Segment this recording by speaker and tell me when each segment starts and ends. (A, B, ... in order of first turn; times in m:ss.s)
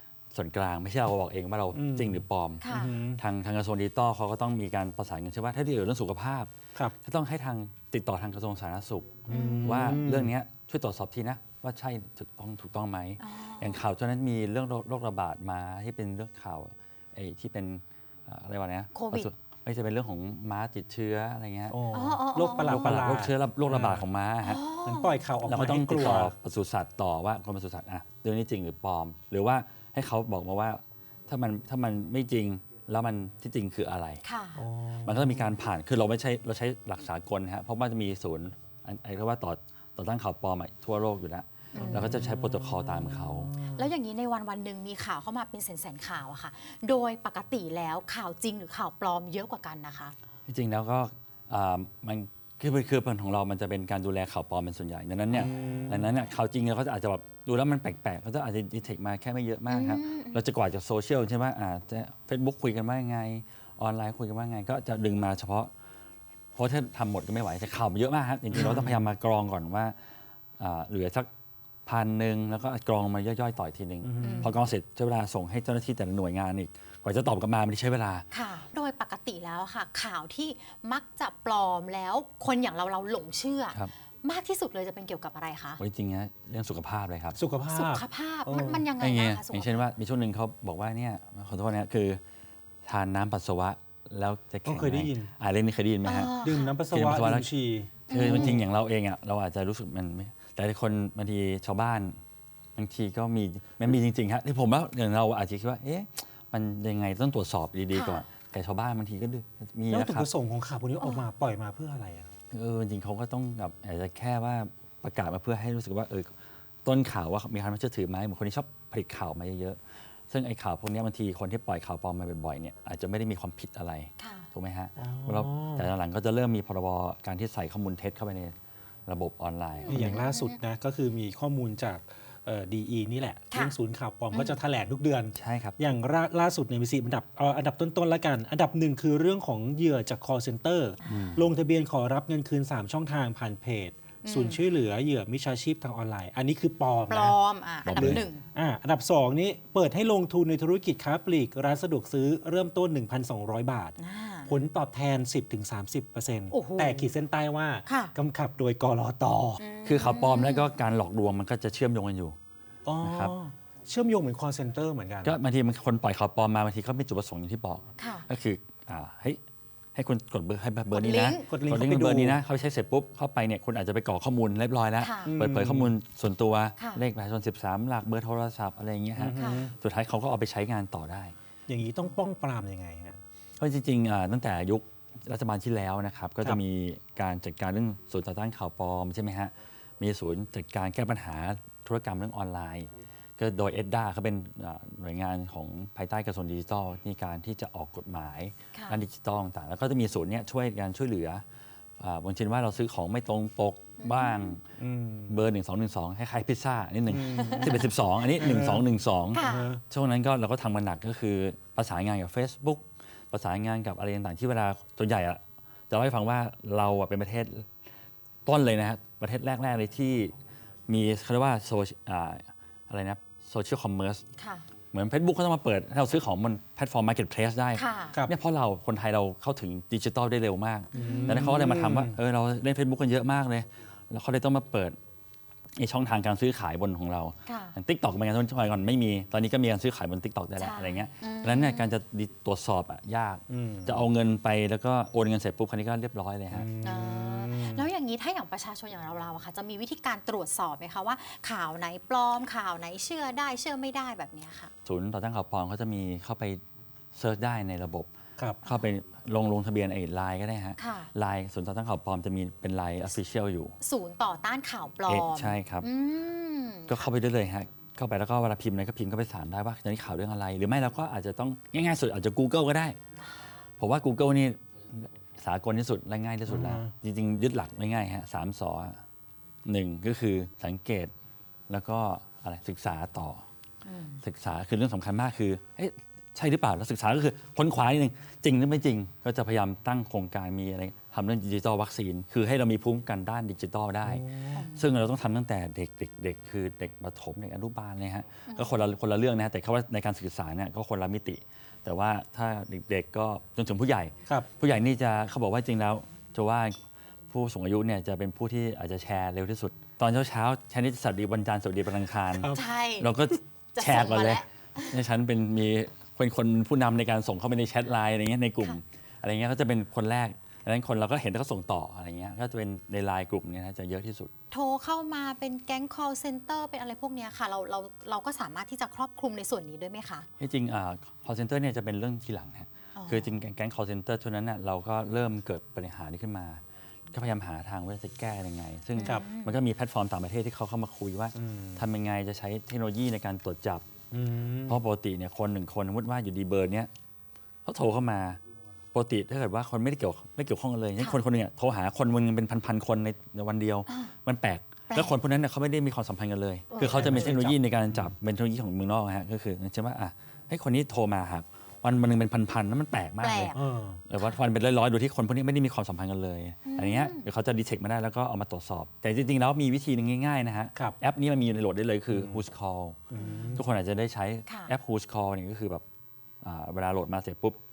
0:00.3-0:06.5 A
0:01.7-0:03.2 B
0:02.6-0:03.0 C
0:07.0-0:21.8 A
0:09.3-0:10.3 B
0:09.3-0:10.0 C
0:13.2-0:13.8 C
0:18.9-0:19.3 C
0:21.7-0:24.0 B
0:21.9-0:23.1 C
0:22.6-0:24.6 A
0:24.4-0:25.2 C
0:24.8-0:26.3 B
0:25.4-0:34.2 A
0:34.2-0:34.6 C
0:34.6-0:35.5 B
0:35.0-0:43.5 A
0:41.7-0:42.1 C
0:41.8-0:43.9 B
0:43.7-0:50.2 C
0:50.4-1:05.7 A
0:55.3-0:56.1 B
0:59.7-1:00.4 C
1:06.6-1:09.9 A
1:08.5-1:09.0 B
1:10.6-1:11.3 A
1:11.8-1:18.2 A
1:14.0-1:14.6 B
1:14.2-1:14.5 C
1:18.3-1:25.8 C
1:25.8-1:27.4 A
1:27.3-1:28.9 B
1:27.7-1:29.9 C
1:29.0-1:32.2 A
1:32.8-1:37.5 A
1:34.6-1:35.3 B
1:36.0-1:36.7 C
1:36.4-1:38.6 B
1:38.1-1:38.6 C
1:38.1-1:42.2 A
1:42.8-1:50.3 A
1:47.9-1:48.2 C
1:49.9-1:52.3 B
1:51.0-1:51.3 C
1:52.5-1:56.3 A
1:56.8-2:08.5 A
2:04.2-2:04.5 C
2:05.0-2:05.9 B
2:09.0-2:10.2 A
2:09.9-2:10.6 C
2:09.9-2:27.4 B
2:13.5-2:13.8 C
2:15.3-2:15.8 A
2:21.0-2:21.5 A
2:24.2-2:24.6 C
2:27.1-2:28.4 C
2:27.8-2:28.2 A
2:28.0-2:33.9 B
2:34.0-2:34.5 C
2:34.4-2:39.6 B
2:36.5-2:37.1 C
2:37.8-2:38.1 C
2:39.6-2:40.7 C
2:39.8-2:42.4 A
2:42.8-2:45.4 B
2:43.0-2:43.3 A
2:45.2-2:49.4 A
2:48.0-2:48.3 C
2:49.9-3:01.3 A
2:50.9-2:51.5 C
2:51.5-2:52.4 B
2:55.0-2:55.3 C
2:55.3-2:55.9 B
2:56.8-2:57.0 C
2:59.2-2:59.7 B
2:59.3-2:59.7 C
3:01.7-3:03.2 B
3:03.6-3:21.4 A
3:18.7-3:19.0 C
3:22.0-3:24.6 A
3:24.0-3:24.6 C
3:24.8-3:25.4 B
3:25.3-3:37.7 A
3:27.1-3:28.8 B
3:27.3-3:27.9 C
3:29.3-3:29.7 C
3:29.4-3:29.8 B
3:38.4-3:40.3 A
3:40.9-3:44.2 A
3:44.4-3:44.6 C
3:44.9-3:55.0 A
3:47.7-3:48.2 C
3:50.9-3:51.5 C
3:50.9-3:52.2 B
3:55.8-4:06.7 A
3:57.4-3:57.8 C
4:00.6-4:01.9 C
4:03.5-4:04.1 B
4:06.5-4:07.8 B
4:06.8-4:14.7 C
4:14.8-4:16.6 A
4:17.1-4:18.1 A
4:18.6-4:23.8 A
4:20.8-4:21.1 C
4:23.8-4:27.1 C
4:25.1-4:25.9 A
4:26.9-4:33.0 A
4:33.8-4:39.0 A
4:36.5-4:36.9 B
4:39.6-4:41.1 A
4:41.7-4:43.4 A
4:43.8-4:44.2 C
4:44.2-5:24.3 A
4:54.0-4:54.6 B
4:54.5-4:54.9 C
4:58.5-4:58.9 C
5:12.3-5:12.7 B
5:12.5-5:13.1 C
5:13.7-5:15.0 C
5:24.5-5:30.3 C
5:30.4-5:36.6 A
5:32.9-5:33.4 C
5:37.1-5:43.8 A
5:39.0-5:39.6 C
5:41.4-5:41.8 B
5:44.1-5:44.8 B
5:44.6-5:46.9 A
5:47.6-5:48.4 A
5:48.9-6:13.0 A
5:53.9-5:54.1 C
5:56.7-5:57.6 C
5:56.8-5:57.5 B
6:03.2-6:03.6 C
6:03.5-6:04.0 B
6:06.6-6:07.3 C
6:12.1-6:12.4 B
6:13.1-6:13.6 B
6:13.2-6:13.5 C
6:13.5-6:15.8 A
6:14.4-6:14.7 C
6:16.4-6:17.6 A